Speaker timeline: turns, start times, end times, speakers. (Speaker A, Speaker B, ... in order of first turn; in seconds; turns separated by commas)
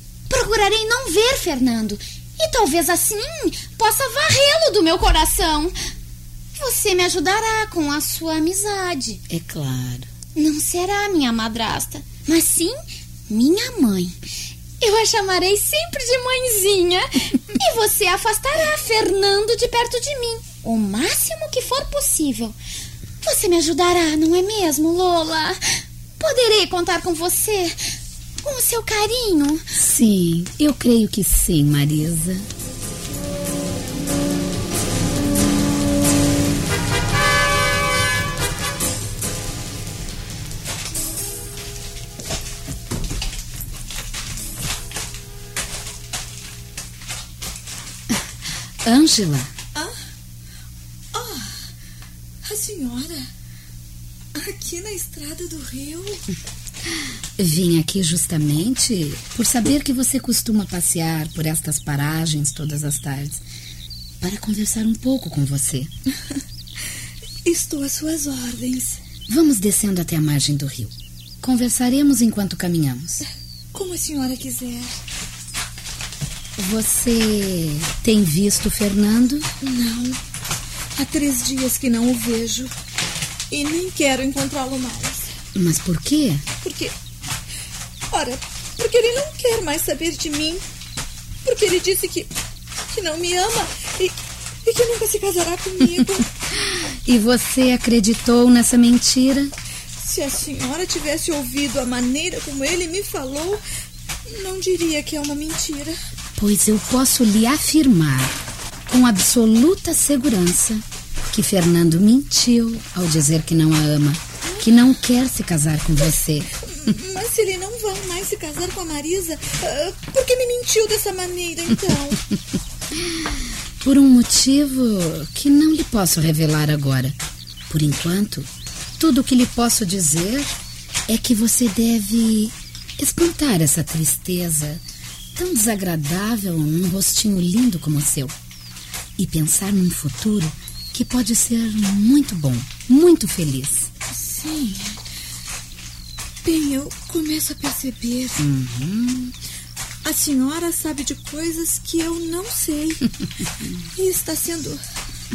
Speaker A: 0.3-5.7, Speaker A: 6.5-9.2, Speaker B: 9.3-10.1, Speaker A: 10.3-14.2, Speaker A: 14.8-22.6, Speaker A: 23.2-25.6, Speaker A: 26.2-27.8, Speaker A: 28.4-29.6, Speaker B: 29.8-32.5, Speaker B: 48.8-49.5, Speaker C: 51.1-51.6, Speaker C: 52.4-53.3, Speaker C: 54.3-56.2, Speaker B: 57.4-63.4, Speaker B: 64.2-65.9, Speaker C: 67.4-69.0, Speaker B: 69.3-73.2, Speaker C: 73.7-75.0, Speaker B: 76.6-79.5, Speaker C: 79.6-80.2, Speaker C: 81.0-82.7, Speaker C: 83.5-85.3, Speaker B: 85.5-86.4, Speaker C: 86.6-86.9, Speaker C: 88.1-90.6, Speaker C: 91.4-92.3, Speaker C: 92.9-96.3, Speaker B: 96.6-99.5, Speaker C: 100.0-103.6, Speaker C: 104.3-106.0, Speaker B: 106.4-108.3, Speaker B: 108.9-116.5, Speaker C: 116.7-122.2, Speaker B: 123.8-127.2, Speaker B: 127.7-130.6, Speaker B: 131.1-134.8, Speaker B: 135.3-138.3, Speaker B: 139.2-143.9, Speaker C: 144.1-145.0, Speaker C: 146.4-148.4, Speaker B: 148.4-149.3, Speaker C: 150.0-153.0, Speaker C: 153.9-154.8